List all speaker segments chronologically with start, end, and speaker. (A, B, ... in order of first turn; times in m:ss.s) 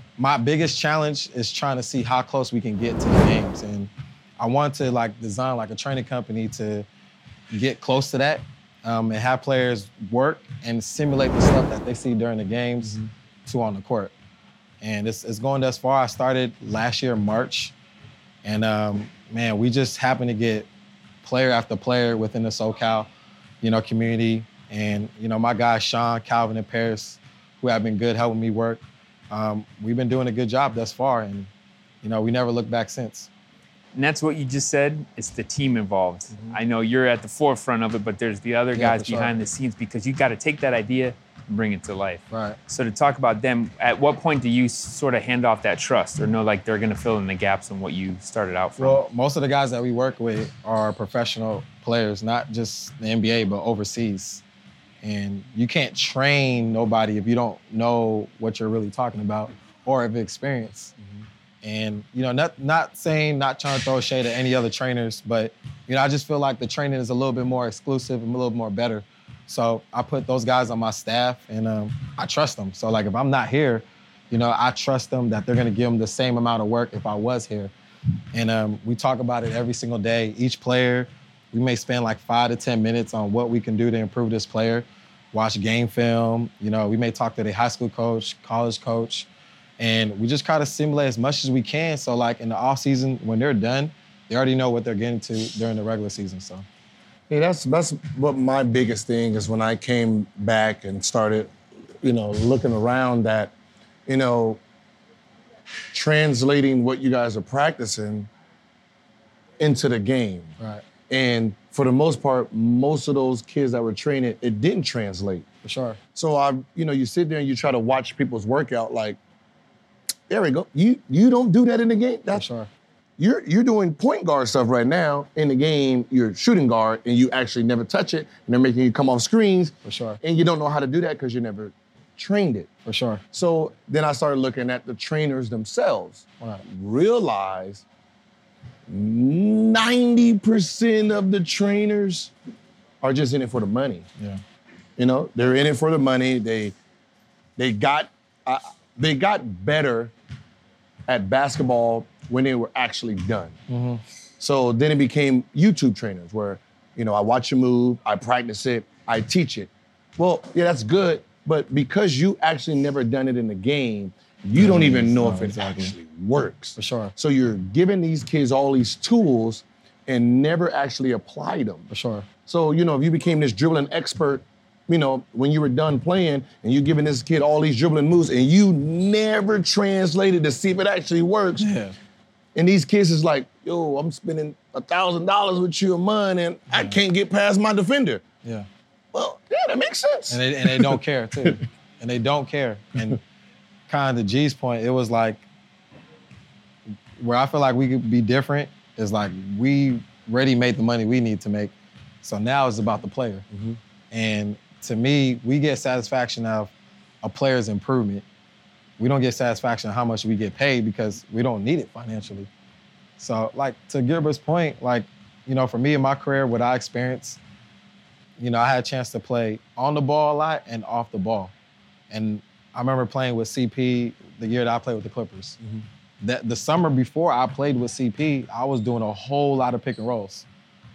0:00.2-0:06.9 A
0:07.5-0:14.1 A
0:14.8-0:17.8 A
0:18.4-0:20.7 A
0:21.2-0:23.1 A
0:23.6-0:31.5 A
0:32.0-0:33.3 A
0:34.0-0:49.0 B
0:38.8-0:39.4 A
0:42.3-0:42.6 A
0:48.8-0:54.4 A
0:55.0-1:00.9 A
1:01.6-1:17.7 A
1:18.3-1:29.3 A
1:29.8-1:36.7 A
1:37.3-1:43.5 C
1:44.1-1:44.6 C
1:45.9-1:48.3 C
1:49.6-1:50.5 C
1:50.6-1:50.8 A
1:51.1-1:55.4 C
1:55.6-1:56.0 A
1:56.1-1:59.2 C
2:00.3-2:02.4 C
2:02.3-2:02.7 A
2:03.2-2:12.7 C
2:09.8-2:10.2 A
2:12.9-2:13.2 A
2:13.3-2:17.8 C
2:18.9-2:22.3 C
2:23.0-2:24.1 C
2:25.0-2:26.7 C
2:27.6-2:30.1 C
2:31.1-2:33.6 C
2:33.7-2:34.0 A
2:34.4-2:51.9 C
2:44.6-2:45.9 A
2:46.8-2:47.1 A
2:51.9-2:52.3 A
2:52.5-3:01.6 C
3:01.6-3:02.0 A
3:02.6-3:08.2 C
3:06.7-3:07.0 A
3:09.1-3:11.0 C
3:10.3-3:13.2 A
3:13.9-3:15.4 A
3:17.2-3:23.4 A
3:23.5-3:23.8 C
3:24.1-3:28.2 A
3:29.0-3:32.5 A
3:33.2-3:37.4 A
3:38.4-3:41.5 A
3:42.1-3:45.6 A
3:46.2-3:50.5 A